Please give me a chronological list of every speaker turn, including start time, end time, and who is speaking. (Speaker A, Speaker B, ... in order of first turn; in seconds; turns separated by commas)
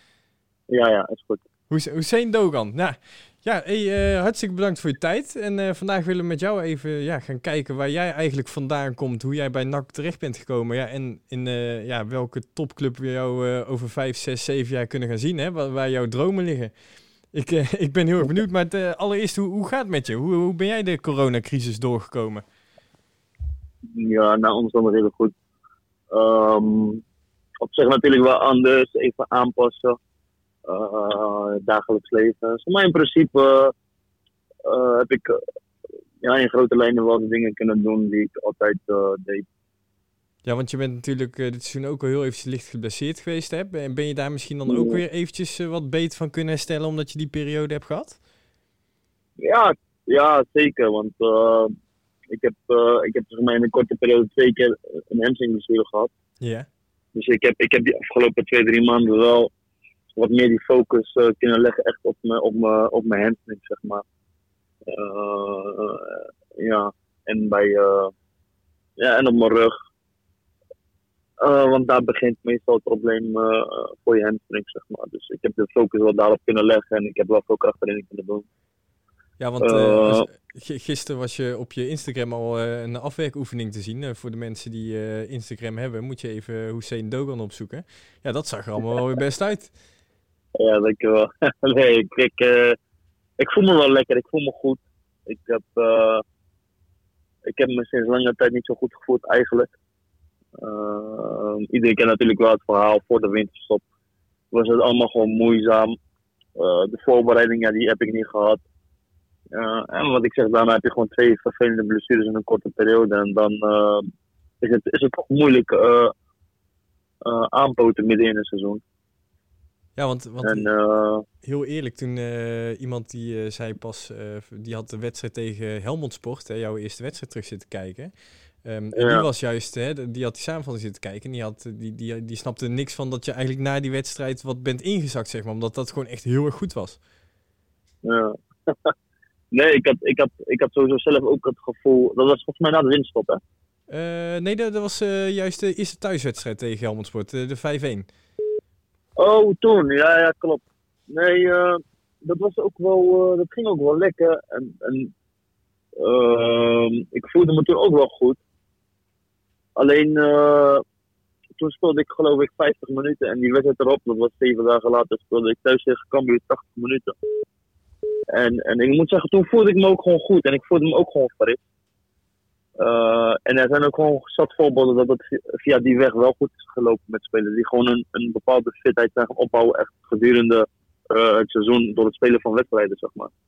Speaker A: 0.7-1.4, Speaker B: 1.7-16.7, Speaker B: 17.3-22.4, Speaker A: 23.9-25.3, Speaker A: 26.1-27.0, Speaker A: 27.6-30.0, Speaker A: 30.6-33.7, Speaker A: 34.6-35.4, Speaker A: 36.2-39.5, Speaker B: 40.4-48.2, Speaker A: 44.7-45.0, Speaker A: 49.4-51.7, Speaker A: 52.3-56.1, Speaker B: 56.4-56.7, Speaker A: 57.1-59.5, Speaker A: 60.1-64.0, Speaker A: 64.8-68.1, Speaker A: 69.0-69.7, Speaker A: 71.4-78.4, Speaker B: 79.4-89.7, Speaker A: 79.6-80.3, Speaker A: 90.6-92.8, Speaker A: 93.4-96.2, Speaker A: 97.5-99.7, Speaker A: 100.6-103.8, Speaker A: 104.5-105.9, Speaker A: 106.6-108.6, Speaker A: 109.5-114.1, Speaker A: 114.6-116.1, Speaker A: 117.2-118.8, Speaker B: 120.0-120.7, Speaker A: 120.4-121.2, Speaker B: 121.4-128.1, Speaker B: 128.6-137.0, Speaker A: 128.9-129.2, Speaker A: 138.0-138.9, Speaker A: 139.5-143.4, Speaker B: 143.9-148.1, Speaker A: 149.2-155.1, Speaker A: 156.0-158.4, Speaker A: 159.8-160.8, Speaker A: 161.6-167.1, Speaker A: 168.3-171.6, Speaker A: 172.8-183.3